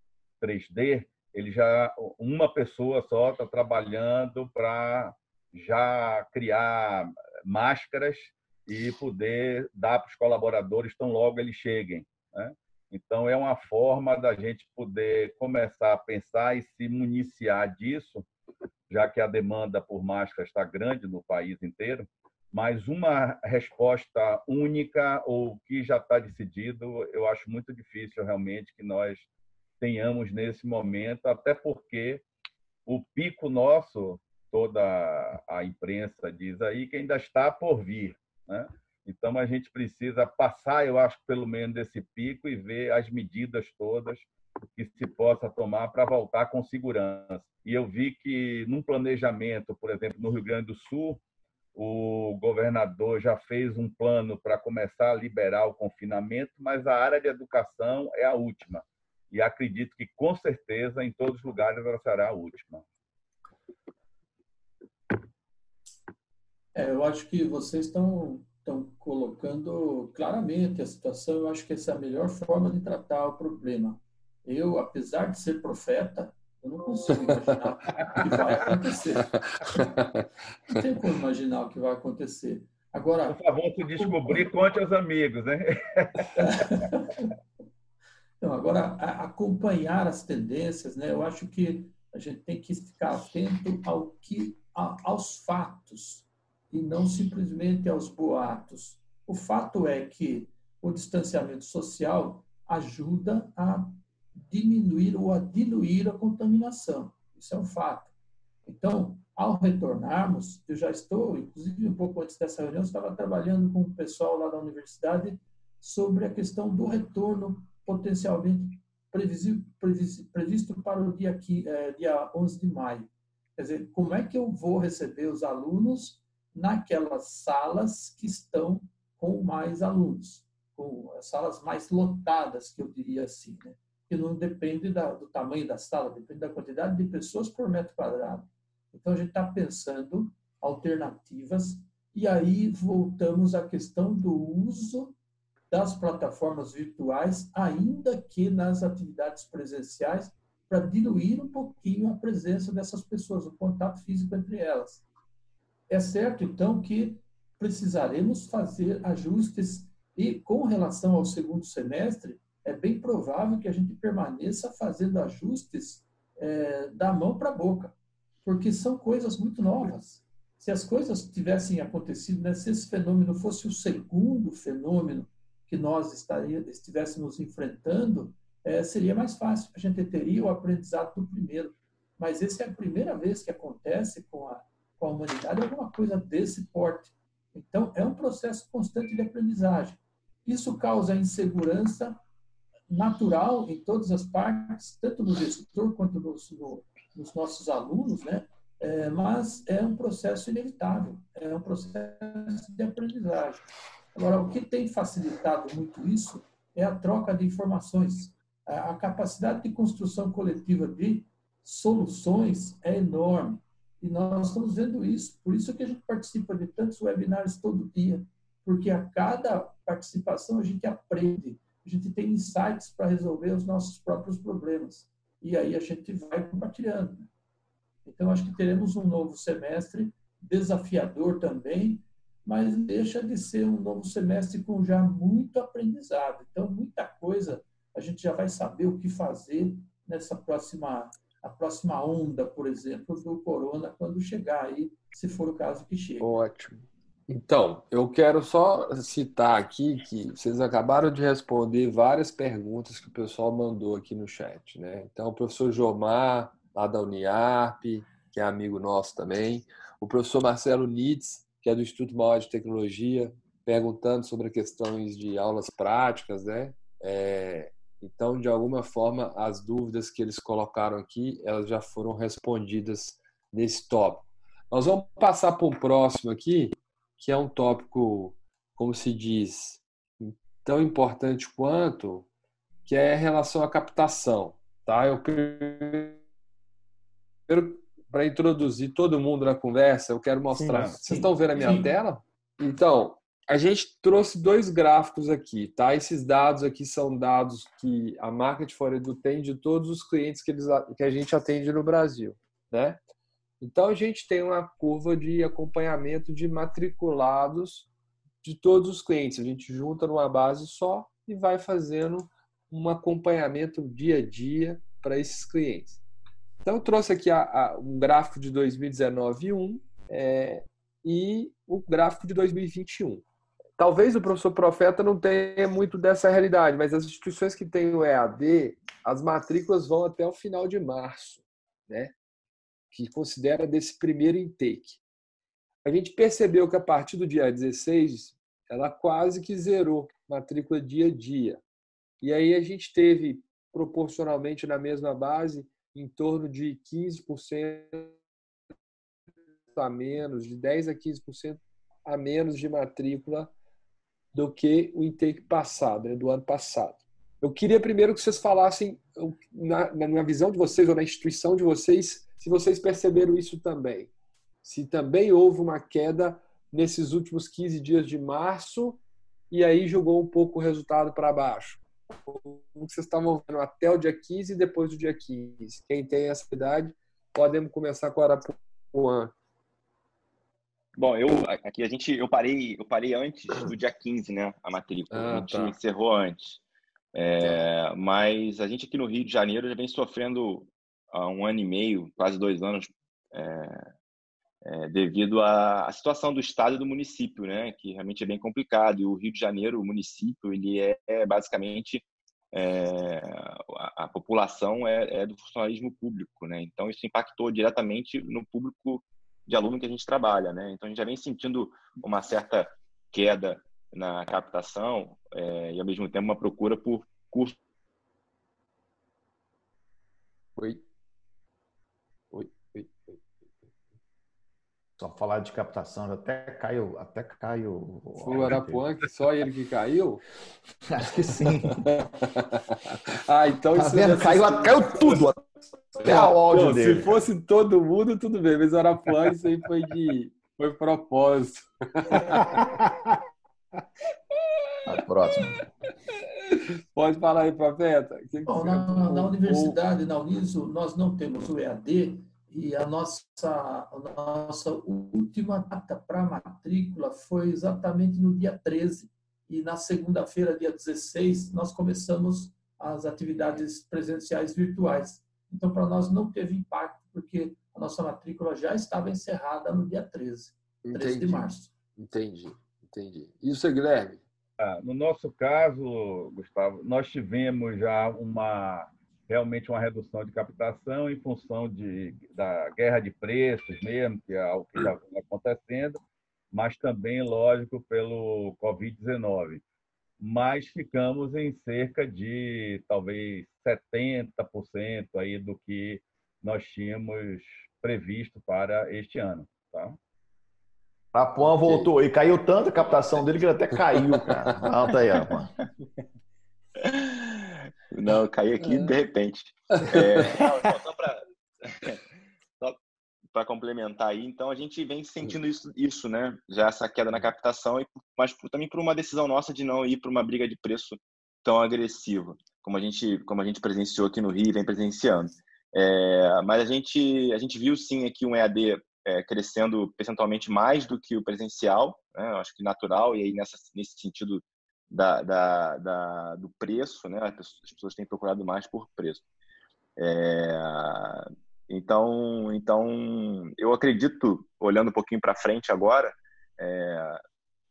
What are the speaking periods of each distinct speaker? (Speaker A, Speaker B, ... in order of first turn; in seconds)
Speaker A: 0.4-18.2, 18.9-29.3, 29.8-32.2, 32.9-51.2, 51.7-62.8, 83.3-86.9, 290.6-290.9, 474.6-486.0, 486.5-489.6, 490.2-500.0
Speaker B: 66.7-79.9, 80.7-83.4, 84.0-84.4, 86.4-87.2, 88.4-108.1, 108.7-145.1, 145.7-155.0, 155.9-167.9, 168.4-192.2, 192.9-227.3, 228.0-246.3, 291.1-291.9, 448.4-471.7
Speaker C: 79.5-80.3, 246.2-282.3, 282.8-286.2, 287.5-303.0, 303.6-307.9, 308.4-316.0, 316.6-323.2, 323.8-332.1, 332.9-335.0, 335.8-341.6, 342.2-348.1, 349.7-353.5, 354.3-364.1, 364.6-379.3, 385.1-385.8, 420.6-420.8, 422.3-423.5, 428.2-430.2, 431.7-435.2, 436.0-442.6, 446.4-449.8, 470.8-471.4, 472.0-474.2, 508.7-508.9
Speaker D: 380.9-386.6, 387.1-393.9, 394.6-417.5, 501.6-501.9, 503.1-503.4, 506.8-512.0, 513.3-539.2, 540.0-547.2
Speaker E: 425.0-428.8, 430.9-431.9, 433.7-437.1, 442.6-442.9, 444.9-445.6, 501.1-505.5